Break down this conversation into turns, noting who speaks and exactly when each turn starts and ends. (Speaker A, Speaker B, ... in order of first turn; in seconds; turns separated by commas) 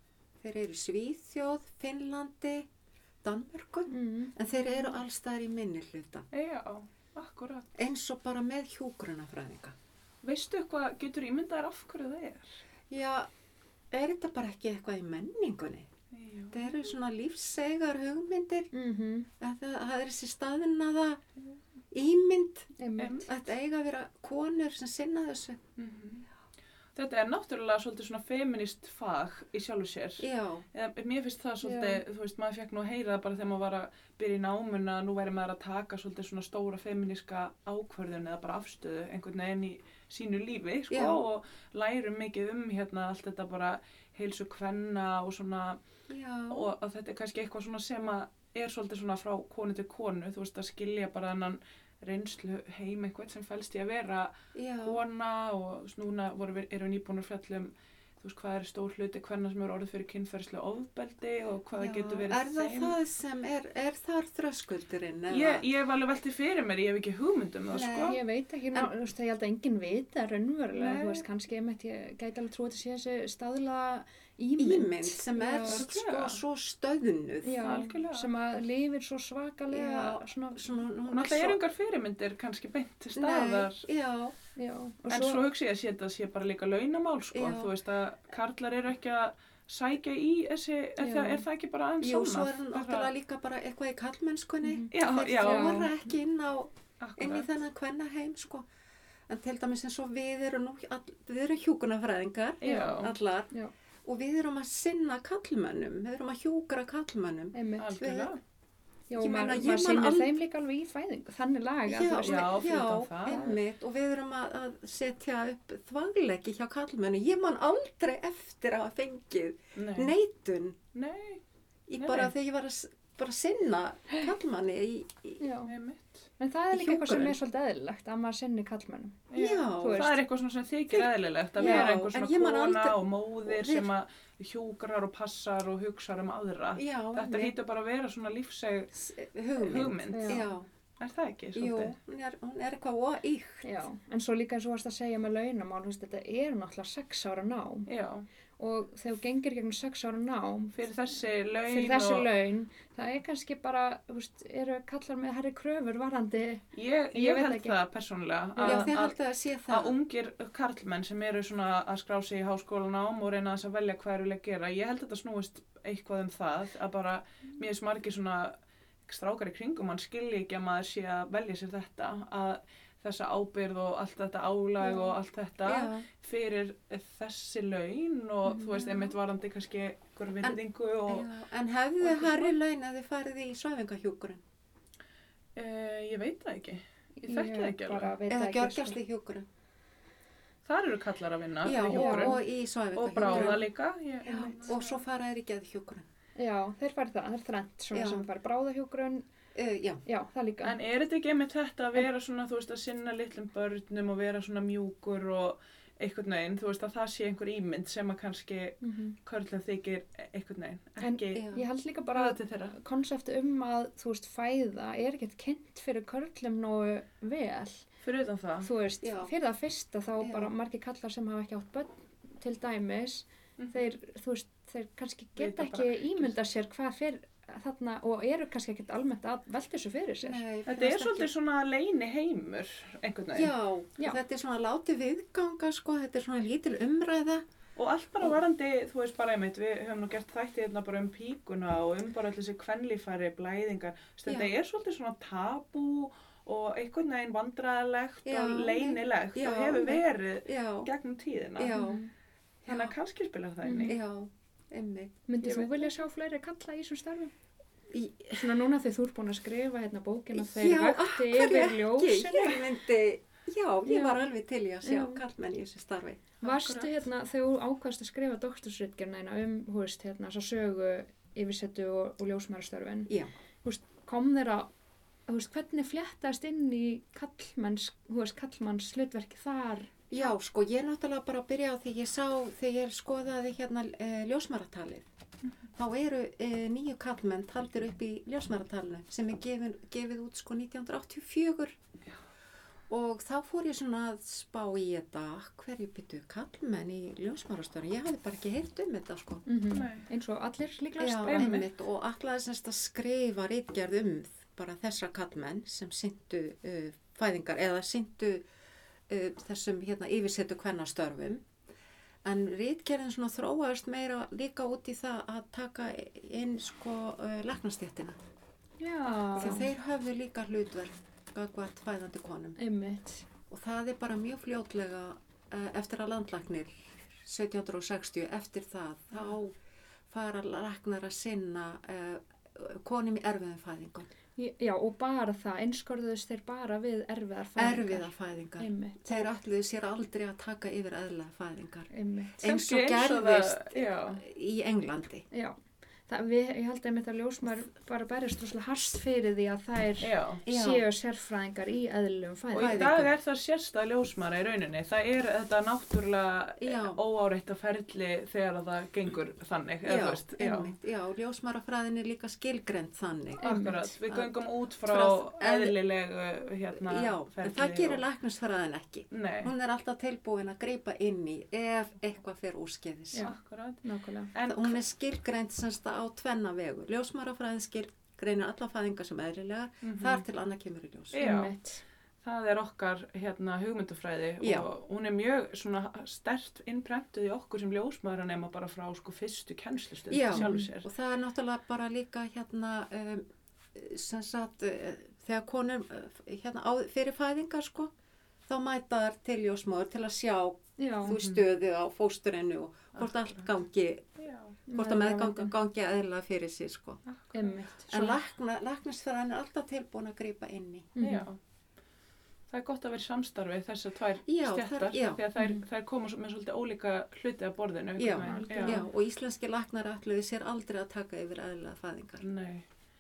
Speaker A: 0.4-2.7, Speaker A: 3.2-6.3, Speaker B: 3.9-4.3, Speaker C: 6.3-7.7, Speaker A: 7.8-9.7, Speaker C: 10.2-12.6, Speaker A: 12.9-13.3, Speaker A: 13.9-15.9, Speaker C: 16.1-16.8, Speaker A: 16.5-18.7, Speaker B: 18.7-19.3, Speaker A: 19.4-21.2, Speaker A: 21.9-25.6, Speaker B: 22.8-23.3, Speaker C: 23.0-23.3, Speaker C: 25.8-26.3, Speaker C: 26.9-45.8, Speaker A: 30.2-30.6, Speaker B: 31.6-32.0, Speaker A: 40.9-41.2, Speaker A: 46.1-46.7, Speaker C: 46.5-62.9, Speaker A: 54.5-55.0, Speaker A: 61.8-65.6, Speaker C: 65.3-68.2, Speaker A: 67.7-68.2, Speaker B: 68.0-75.8, Speaker C: 70.7-71.2, Speaker A: 74.6-77.6, Speaker C: 75.6-76.4, Speaker B: 77.4-80.7, Speaker C: 77.6-78.3, Speaker A: 79.7-81.6, Speaker C: 81.1-83.8, Speaker A: 83.1-84.3, Speaker B: 84.5-85.4, Speaker C: 85.1-93.1, Speaker A: 87.3-87.7, Speaker B: 91.0-91.4, Speaker A: 92.0-98.7, Speaker B: 94.6-95.9, Speaker C: 94.9-95.9, Speaker C: 97.0-97.5, Speaker A: 99.3-103.5, Speaker C: 102.6-103.1, Speaker B: 102.6-103.7, Speaker A: 104.0-108.3, Speaker B: 107.5-107.9, Speaker C: 107.8-108.4, Speaker B: 109.1-112.7, Speaker A: 109.2-110.3, Speaker A: 111.9-120.8, Speaker C: 112.1-113.5, Speaker C: 119.8-120.1, Speaker C: 120.9-121.4, Speaker A: 121.9-125.4, Speaker C: 122.0-122.3, Speaker B: 125.4-125.7, Speaker C: 125.7-126.2, Speaker B: 126.4-130.2, Speaker A: 126.7-127.4, Speaker C: 129.3-138.9, Speaker A: 129.3-130.1, Speaker A: 130.9-133.9, Speaker B: 131.6-131.9, Speaker A: 136.8-137.6, Speaker A: 138.9-140.7, Speaker C: 139.6-140.5, Speaker B: 140.1-140.5, Speaker C: 141.0-141.9, Speaker A: 141.5-143.7, Speaker B: 143.6-147.9, Speaker C: 147.9-148.2, Speaker B: 148.6-150.8, Speaker C: 150.7-152.3, Speaker B: 151.7-157.8, Speaker C: 156.7-159.2, Speaker B: 158.6-158.9, Speaker A: 158.6-160.0, Speaker C: 159.7-168.5, Speaker C: 169.1-181.3, Speaker B: 174.8-175.1, Speaker A: 175.6-176.1, Speaker B: 178.4-179.1, Speaker A: 180.4-184.4, Speaker C: 182.0-182.5, Speaker C: 185.6-188.2, Speaker B: 187.2-189.0, Speaker A: 188.3-189.4, Speaker C: 190.7-192.4, Speaker A: 191.6-193.7, Speaker B: 191.9-192.4, Speaker C: 192.9-194.8, Speaker B: 193.3-193.6, Speaker B: 194.2-194.8, Speaker A: 194.2-196.1, Speaker B: 196.4-199.2, Speaker A: 197.9-198.3, Speaker A: 199.5-200.0, Speaker B: 200.1-200.8, Speaker C: 200.6-211.4, Speaker B: 208.8-209.2, Speaker B: 211.0-217.8, Speaker A: 211.3-211.7, Speaker C: 212.1-212.8, Speaker C: 218.0-218.7, Speaker B: 218.6-230.4, Speaker A: 219.0-219.3, Speaker A: 220.2-220.5, Speaker C: 223.6-223.9, Speaker C: 225.4-226.3, Speaker A: 230.2-231.3, Speaker C: 230.7-233.5, Speaker A: 233.3-237.4, Speaker C: 237.8-251.8, Speaker A: 244.3-244.5, Speaker A: 248.2-250.9, Speaker A: 251.6-252.0, Speaker B: 251.7-252.1, Speaker A: 252.7-252.9, Speaker C: 252.7-254.0, Speaker B: 253.6-253.9, Speaker A: 253.8-255.7, Speaker B: 255.3-257.3, Speaker A: 257.9-258.4, Speaker B: 258.3-262.6, Speaker A: 260.3-266.3, Speaker B: 263.9-264.2, Speaker B: 264.8-265.2, Speaker B: 266.4-273.1, Speaker C: 266.4-266.9, Speaker B: 273.6-274.7, Speaker B: 275.3-280.2, Speaker A: 280.1-285.0, Speaker A: 285.8-291.8, Speaker A: 292.9-299.4, Speaker B: 299.4-301.6, Speaker C: 299.7-300.1, Speaker A: 301.0-308.4, Speaker C: 301.2-301.7, Speaker A: 309.1-311.4, Speaker A: 312.2-318.2, Speaker B: 318.8-319.7, Speaker A: 319.4-322.6, Speaker B: 322.6-323.2, Speaker A: 323.5-329.6, Speaker A: 330.1-334.1, Speaker B: 334.4-339.2, Speaker A: 337.6-345.2, Speaker B: 341.9-342.5, Speaker C: 342.4-344.2, Speaker B: 346.1-352.9, Speaker C: 350.0-350.4, Speaker A: 350.4-350.8, Speaker C: 352.5-360.7, Speaker A: 352.5-353.1, Speaker A: 356.6-357.0, Speaker A: 359.9-363.5, Speaker B: 363.4-363.9, Speaker C: 363.4-368.0, Speaker A: 364.9-365.8, Speaker A: 366.8-373.3, Speaker C: 369.1-369.5, Speaker B: 373.1-374.3, Speaker C: 373.2-373.8, Speaker C: 374.3-374.8, Speaker A: 374.4-381.2, Speaker C: 379.8-380.2, Speaker C: 381.1-381.5, Speaker B: 381.2-381.8, Speaker C: 382.2-390.9, Speaker A: 384.4-384.7, Speaker A: 390.1-397.9, Speaker B: 390.3-390.7, Speaker A: 398.5-404.1, Speaker B: 400.8-401.2, Speaker C: 401.1-401.4, Speaker C: 402.9-403.5, Speaker C: 404.2-404.6, Speaker B: 404.7-405.5, Speaker A: 404.7-407.0, Speaker C: 407.1-407.6, Speaker B: 407.3-408.2, Speaker A: 407.9-410.9, Speaker B: 410.9-411.3, Speaker C: 411.0-411.4, Speaker C: 412.5-418.8, Speaker A: 414.2-415.2, Speaker B: 415.4-415.6, Speaker A: 418.0-422.2, Speaker B: 418.2-418.9, Speaker C: 422.2-422.6